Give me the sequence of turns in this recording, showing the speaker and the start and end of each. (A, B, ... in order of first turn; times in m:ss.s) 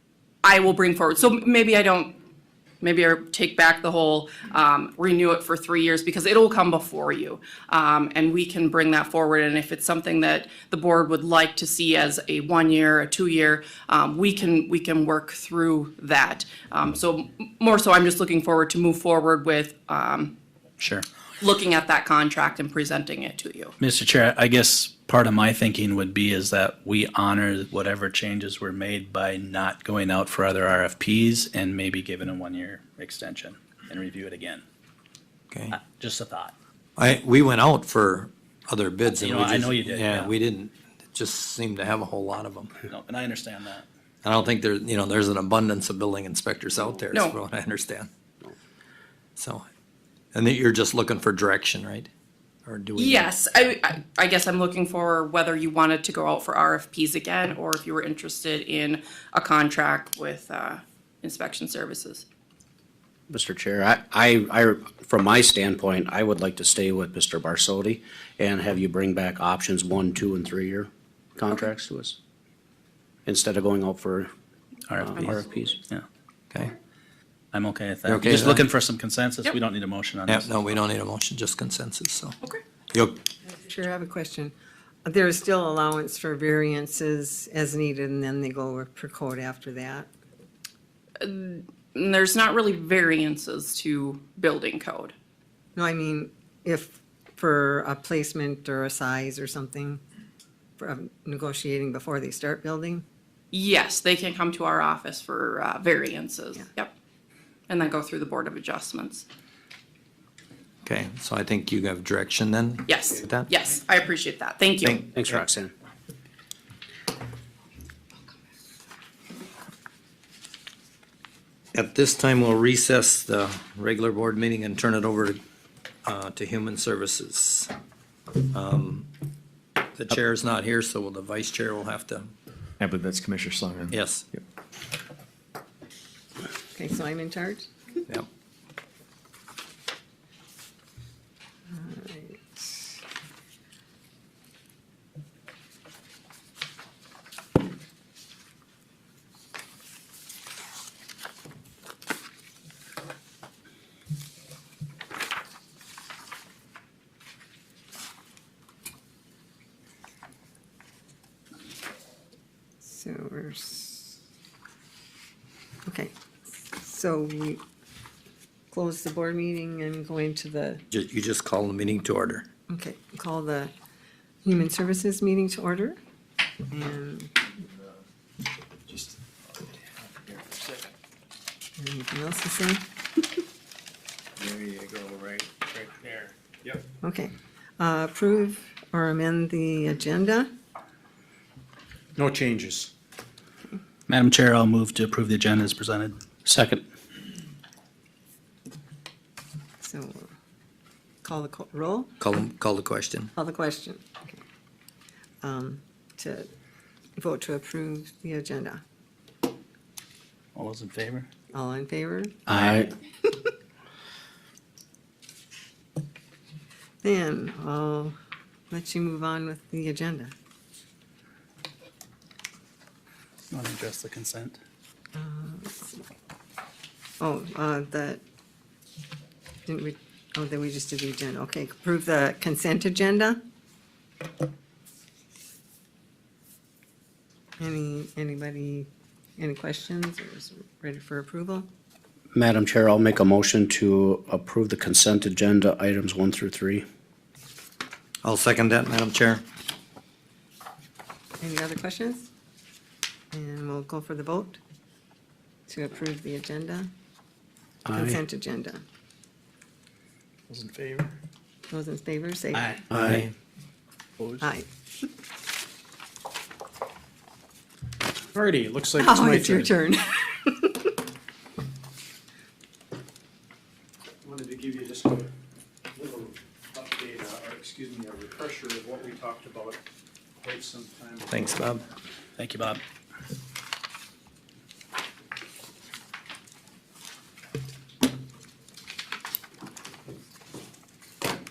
0:00.4-0:02.1 A
0:02.8-0:20.3 A
0:20.8-0:21.0 B
0:21.4-0:23.7 A
0:23.8-0:34.6 B
0:35.5-0:35.8 C
0:35.7-0:36.5 B
0:37.0-0:42.8 C
0:39.1-0:40.3 B
0:42.8-0:43.8 B
0:44.2-0:48.1 C
0:49.4-0:49.7 C
0:50.3-0:52.1 C
0:52.6-0:53.4 C
0:53.0-1:02.2 A
1:03.3-1:12.2 D
1:13.2-1:14.3 D
1:14.9-1:16.0 B
1:15.0-1:15.8 D
1:17.5-1:20.5 B
1:18.0-1:18.6 C
1:20.2-1:22.3 C
1:22.9-1:23.2 C
1:23.6-1:24.5 E
1:25.0-1:30.1 E
1:31.2-1:35.1 A
1:35.8-1:40.0 E
1:40.8-1:43.0 E
1:43.5-1:46.9 A
1:47.7-1:49.2 A
1:50.8-1:53.5 C
1:52.8-1:55.0 A
1:54.8-1:55.4 C
1:55.1-1:55.7 D
2:01.7-2:05.4 C
2:06.0-2:07.7 C
2:08.4-2:09.1 C
2:09.9-2:12.3 C
2:12.8-2:14.4 F
2:13.9-2:14.2 C
2:16.7-2:17.7 E
2:21.7-2:22.8 E
2:42.8-2:44.2 E
2:45.8-2:47.6 E
2:48.7-2:50.8 E
2:50.9-2:52.5 C
2:52.7-2:53.7 E
2:54.4-2:56.0 E
2:56.7-2:57.4 E
2:57.6-2:57.9 F
2:58.9-3:00.6 F
3:01.8-3:02.8 E
3:04.4-3:05.7 F
3:07.0-3:10.5 E
3:12.2-3:12.9 G
3:14.1-3:16.8 B
3:19.8-3:20.3 E
3:21.2-3:22.1 E
3:22.2-3:23.3 C
3:23.3-3:24.2 E
3:25.4-3:26.5 E
3:27.2-3:28.8 E
3:30.5-3:31.3 B
3:31.5-3:32.3 E
3:32.5-3:32.8 B
3:32.5-3:32.9 D
3:37.0-3:38.1 E
3:38.7-3:40.3 E
3:43.5-3:44.6 B
3:45.1-3:46.0 E
3:47.2-3:48.2 E
3:49.6-3:53.4 E
3:57.6-4:01.7 E
4:02.3-4:06.8 D
4:08.2-4:09.4 C
4:11.4-4:12.3 E
4:13.3-4:14.6 E
4:15.7-4:16.9 E
4:17.8-4:18.2 D
4:17.9-4:18.8 E
4:20.5-4:21.2 B
4:21.7-4:22.8 E
4:22.5-4:23.2 B
4:22.9-4:23.3 D
4:24.2-4:24.4 B
4:24.4-4:24.7 E
4:28.3-4:29.7 G
4:29.0-4:30.9 E
4:34.2-4:35.3 G
4:35.9-4:39.8 G
4:40.4-4:41.7 G
4:41.3-4:41.8 C
4:42.4-4:42.8 B